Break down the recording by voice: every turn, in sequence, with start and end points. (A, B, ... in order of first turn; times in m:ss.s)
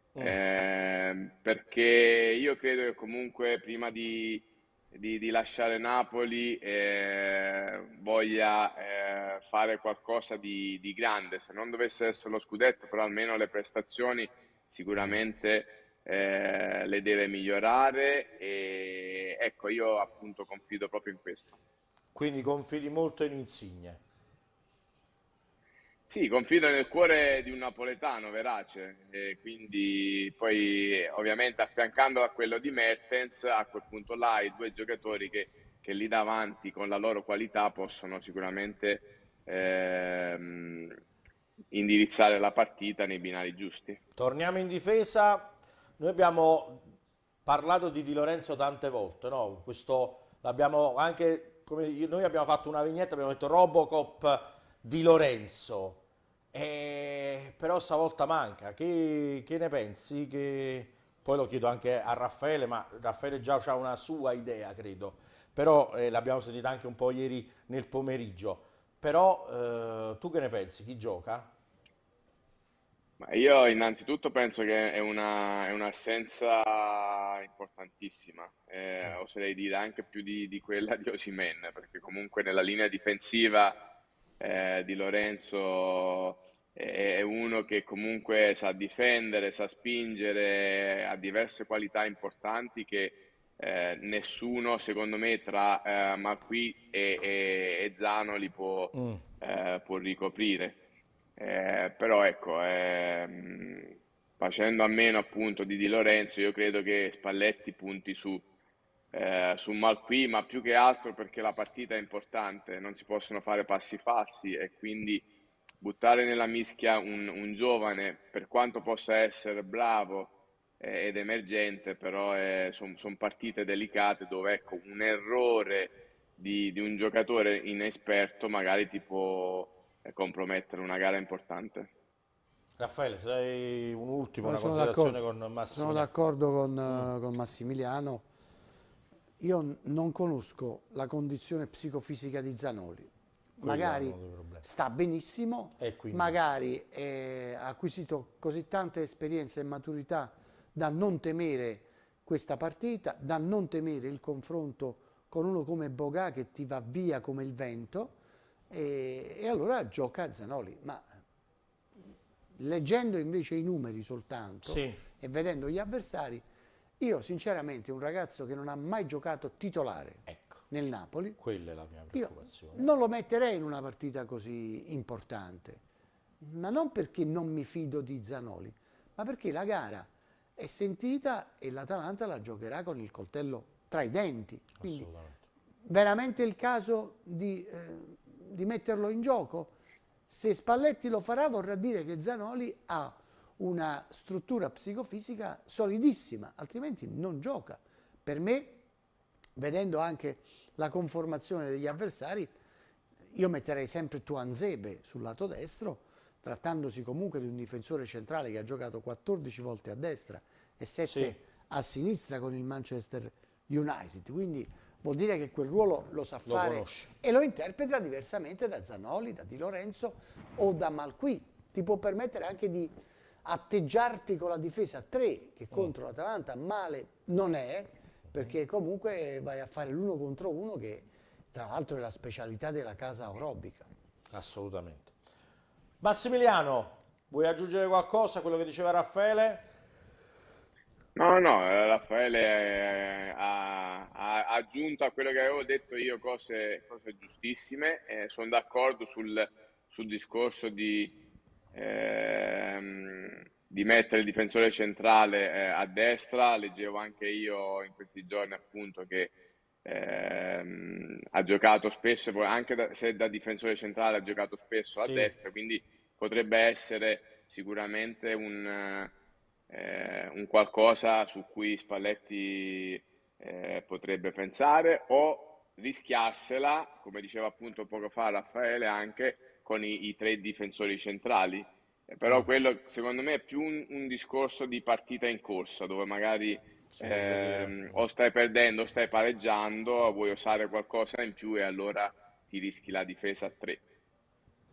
0:00.2-0:21.6 A
0:22.2-0:24.0 B
0:26.1-0:41.0 A
0:41.7-0:44.0 A
0:44.2-0:46.8 B
0:47.5-0:56.0 B
0:56.5-1:11.5 B
1:13.2-1:23.8 A
1:24.4-1:40.8 A
1:39.0-1:39.2 B
1:41.4-1:48.4 A
1:49.1-1:55.3 A
1:55.8-2:11.9 A
2:12.8-2:16.1 B
2:14.4-2:15.2 C
2:15.7-2:18.2 C
2:19.4-2:38.2 C
2:23.6-2:24.6 B
2:25.8-2:26.4 B
2:38.7-2:41.1 C
2:42.6-2:46.4 C
2:44.6-2:45.0 B
2:47.0-2:51.4 C
2:50.3-2:50.6 B
2:51.4-2:52.9 B
2:52.1-2:55.8 C
2:56.4-3:05.1 C
3:04.8-3:05.4 B
3:05.8-3:09.7 C
3:10.3-3:18.8 C
3:19.6-3:22.5 C
3:23.3-3:42.9 C
3:31.0-3:31.4 B
3:36.5-3:37.1 B
3:43.4-3:53.9 C
3:54.3-3:55.1 B
3:56.0-3:59.7 B
4:01.2-4:11.2 A
4:11.7-4:19.3 A
4:19.8-4:29.1 A
4:25.0-4:25.3 B
4:29.7-4:53.8 A
4:47.0-4:48.0 B